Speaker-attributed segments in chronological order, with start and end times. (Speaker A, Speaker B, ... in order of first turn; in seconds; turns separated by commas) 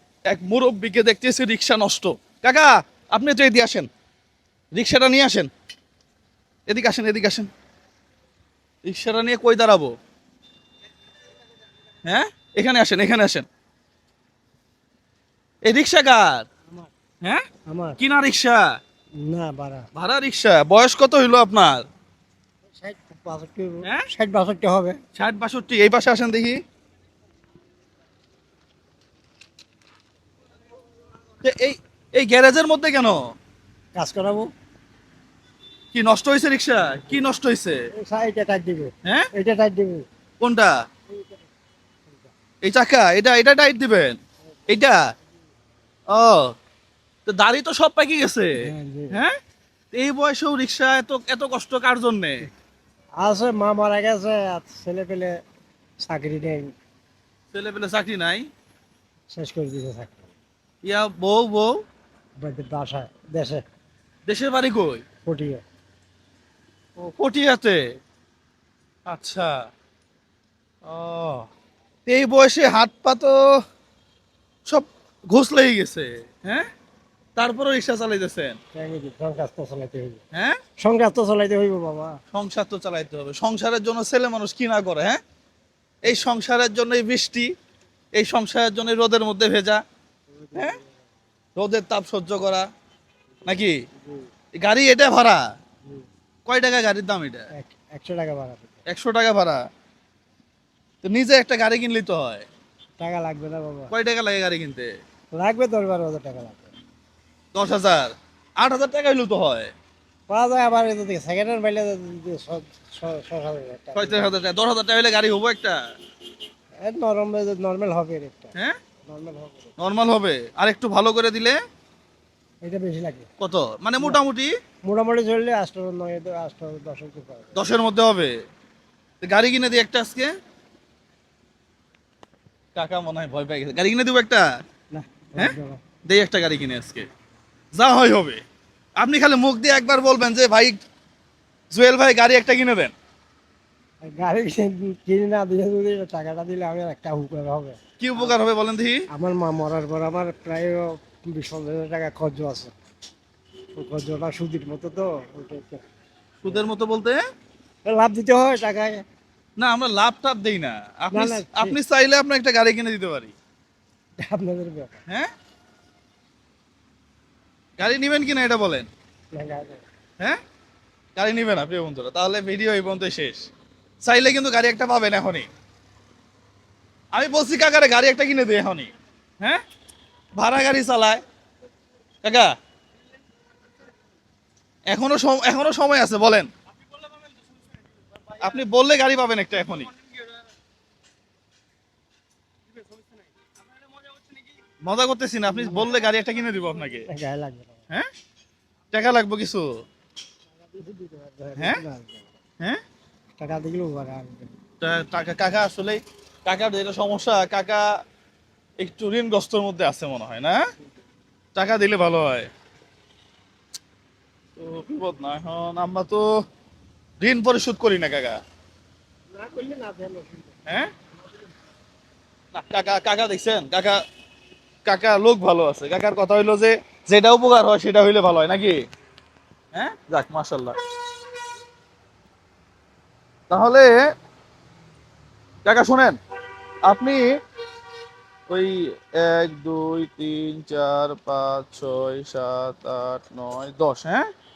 Speaker A: 0.3-3.9, Speaker A: 4.7-5.5, Speaker A: 6.7-7.5, Speaker A: 8.8-9.9, Speaker A: 12.1-13.4, Speaker A: 15.7-16.4, Speaker B: 17.7-18.0, Speaker A: 18.0-18.8, Speaker B: 19.2-19.9, Speaker A: 19.9-21.8, Speaker B: 22.7-25.0, Speaker A: 25.1-26.6, Speaker A: 31.4-33.2, Speaker B: 34.0-34.5, Speaker A: 35.9-37.8, Speaker B: 37.9-40.0, Speaker A: 40.4-40.7, Speaker A: 42.6-45.0, Speaker A: 46.1-46.5, Speaker A: 47.2-49.3, Speaker B: 48.5-49.2, Speaker A: 49.9-52.5, Speaker B: 53.2-55.4, Speaker B: 56.0-56.7, Speaker A: 57.5-58.5, Speaker B: 59.3-60.2, Speaker A: 60.8-61.8, Speaker B: 62.4-63.6, Speaker A: 64.3-65.0, Speaker B: 65.2-65.6, Speaker A: 67.0-67.8, Speaker A: 69.0-69.7, Speaker A: 70.8-71.5, Speaker A: 72.0-73.4, Speaker A: 74.7-76.7, Speaker A: 77.4-78.6, Speaker B: 78.7-80.2, Speaker A: 80.3-80.6, Speaker B: 80.8-82.2, Speaker A: 82.3-85.2, Speaker A: 86.0-87.5, Speaker A: 88.2-89.8, Speaker B: 90.3-90.9, Speaker A: 91.5-92.7, Speaker B: 93.4-94.2, Speaker A: 93.5-93.8, Speaker A: 94.6-95.4, Speaker A: 96.5-97.5, Speaker B: 97.5-98.7, Speaker A: 98.9-99.6, Speaker A: 101.0-102.5, Speaker B: 103.0-103.9, Speaker A: 103.9-104.9, Speaker B: 105.3-106.7, Speaker A: 107.5-109.7, Speaker B: 110.3-114.4, Speaker A: 114.0-115.8, Speaker B: 116.8-119.7, Speaker A: 119.8-121.6, Speaker B: 122.6-123.3, Speaker A: 123.4-124.5, Speaker B: 124.8-127.6, Speaker A: 127.5-128.3, Speaker A: 129.2-130.3, Speaker A: 132.7-134.4, Speaker B: 134.9-135.8, Speaker A: 136.1-137.1, Speaker A: 137.7-138.4, Speaker A: 139.0-140.8, Speaker A: 141.7-142.9, Speaker B: 144.1-148.3, Speaker A: 148.0-149.1, Speaker B: 149.1-152.7, Speaker B: 153.8-155.8, Speaker A: 156.4-157.2, Speaker B: 157.8-159.0, Speaker A: 159.6-163.3, Speaker B: 161.1-161.8, Speaker B: 164.2-165.0, Speaker A: 167.8-168.9, Speaker B: 169.3-169.8, Speaker A: 171.2-173.4, Speaker A: 174.0-175.5, Speaker A: 177.1-179.6, Speaker A: 180.4-181.2, Speaker A: 182.2-182.5, Speaker A: 184.9-186.5, Speaker A: 188.4-189.9, Speaker A: 194.8-197.1, Speaker B: 195.4-195.9, Speaker B: 197.1-197.8, Speaker A: 198.9-199.7, Speaker B: 200.6-202.3, Speaker A: 201.6-201.8, Speaker B: 203.4-204.5, Speaker A: 204.8-207.8, Speaker A: 208.8-210.6, Speaker A: 211.5-212.5, Speaker A: 214.6-216.3, Speaker A: 217.2-218.4, Speaker B: 219.3-220.5, Speaker A: 222.5-224.0, Speaker A: 224.8-228.8, Speaker A: 229.7-230.8, Speaker A: 233.5-234.0, Speaker A: 235.6-236.2, Speaker A: 236.8-237.2, Speaker A: 238.5-244.2